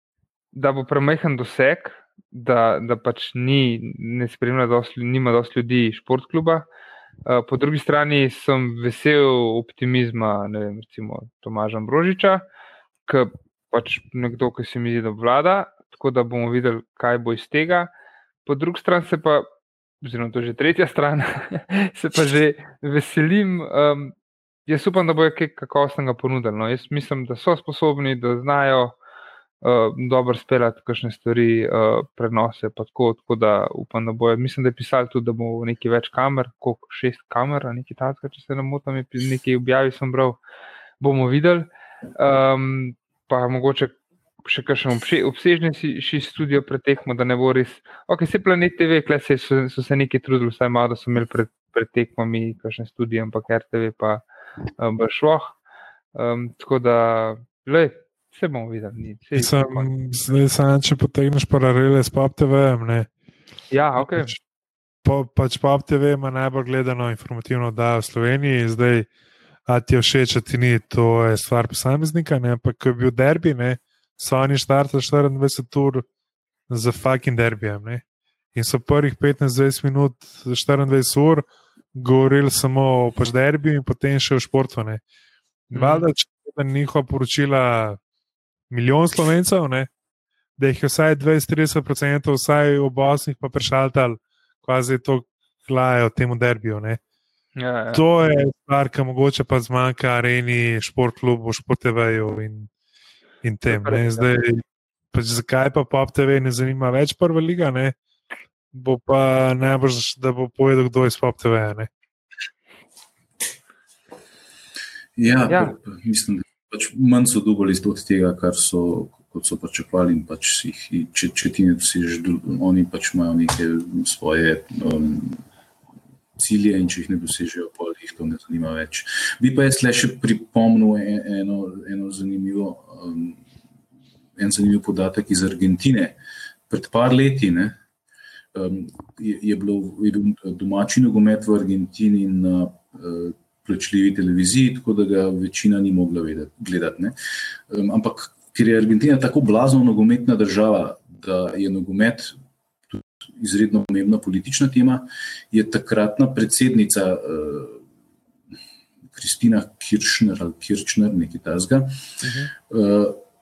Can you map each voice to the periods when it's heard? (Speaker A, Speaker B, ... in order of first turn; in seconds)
Speaker A: 0.5-6.7, 7.3-12.5, 13.1-17.9, 18.5-19.5, 20.0-24.1, 24.7-29.0, 29.6-40.4, 41.0-54.2, 54.8-55.6, 56.1-59.9, 63.7-64.3, 85.8-86.1, 97.6-98.0, 103.7-104.3, 115.5-115.8, 162.2-162.5
Speaker B: 59.4-63.1, 64.0-64.4, 65.0-69.1, 69.7-76.1, 76.7-78.0, 78.5-85.0, 85.7-88.0, 88.7-89.9, 90.6-97.0, 97.9-102.7, 103.4-104.6, 105.1-108.0, 108.7-111.9
Speaker C: 115.2-125.4, 126.4-133.4, 134.4-136.2, 136.7-137.8, 138.5-147.2, 147.7-152.4, 152.9-157.8, 159.1-163.2